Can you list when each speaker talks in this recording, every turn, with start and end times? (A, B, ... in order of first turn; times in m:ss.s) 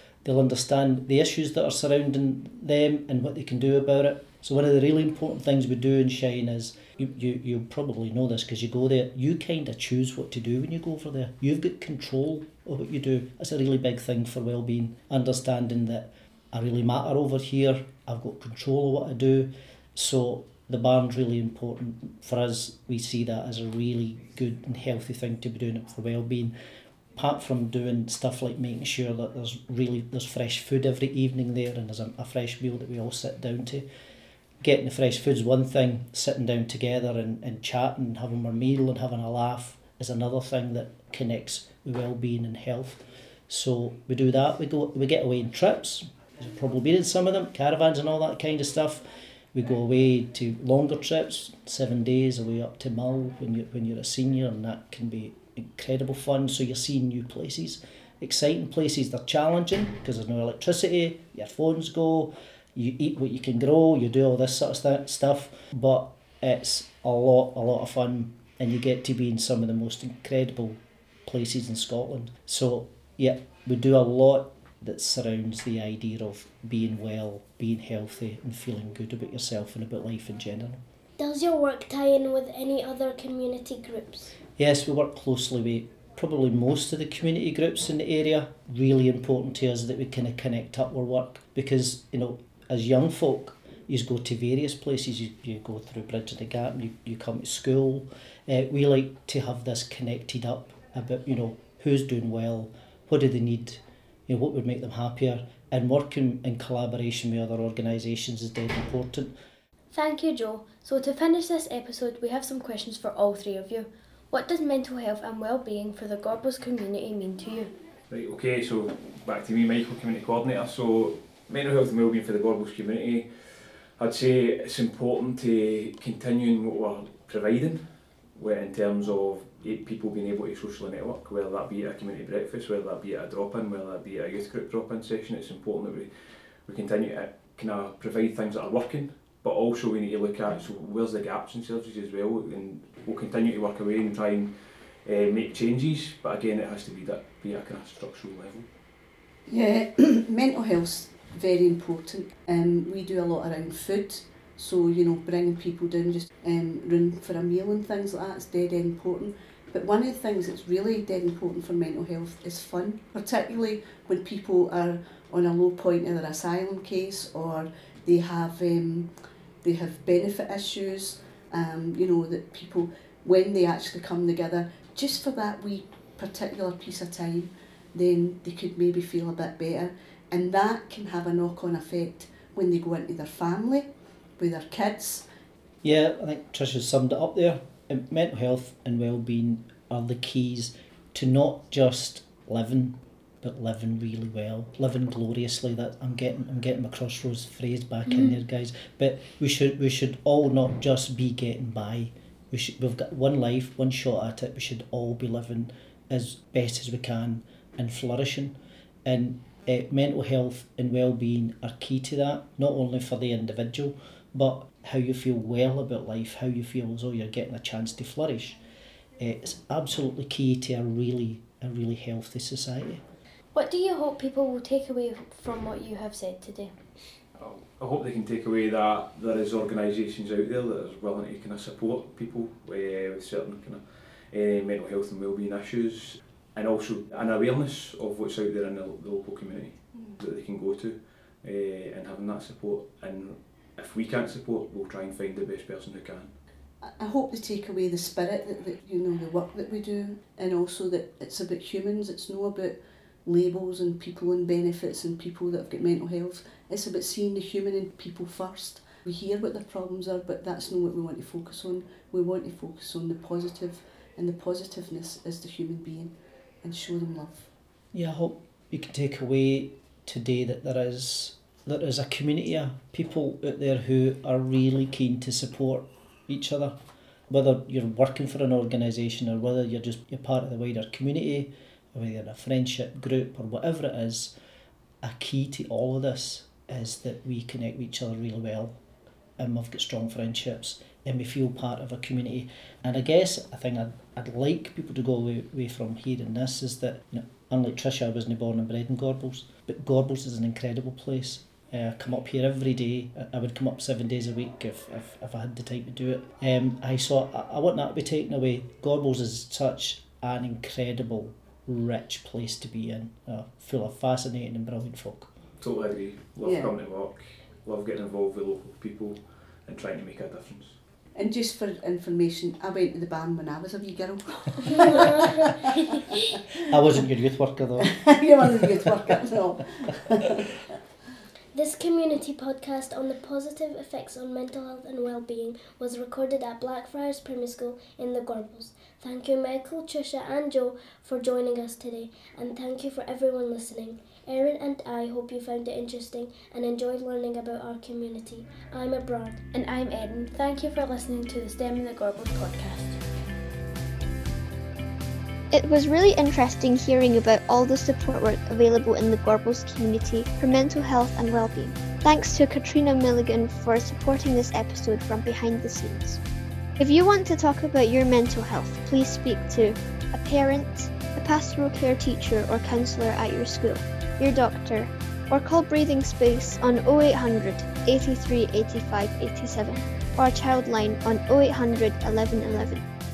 0:00.2-0:26.5 A
0:27.2-0:33.8 A
0:34.6-1:20.8 A
1:21.2-1:24.3 B
1:24.6-1:49.3 A
1:49.9-1:57.7 C
1:58.1-2:07.8 D
2:08.4-2:24.5 D
2:25.0-2:28.7 D
2:29.5-2:49.1 E
2:49.6-3:03.9 E
3:04.4-3:05.2 E
3:05.8-3:28.5 A
3:29.0-3:38.6 A
3:39.2-3:43.0 A
3:43.5-3:46.7 C
3:47.4-4:06.3 D
4:06.8-4:27.5 E
4:27.9-4:36.7 A
4:37.3-4:44.3 A
4:45.0-4:48.7 A
4:49.4-5:15.3 A
5:15.6-5:20.8 D
5:16.4-5:16.7 E
5:21.1-5:25.5 E
5:24.7-5:26.2 B
5:26.7-5:28.6 A
5:28.2-5:30.4 E
5:31.5-5:49.4 B
5:49.5-5:53.0 C
5:55.5-6:06.2 F
6:06.8-6:22.8 F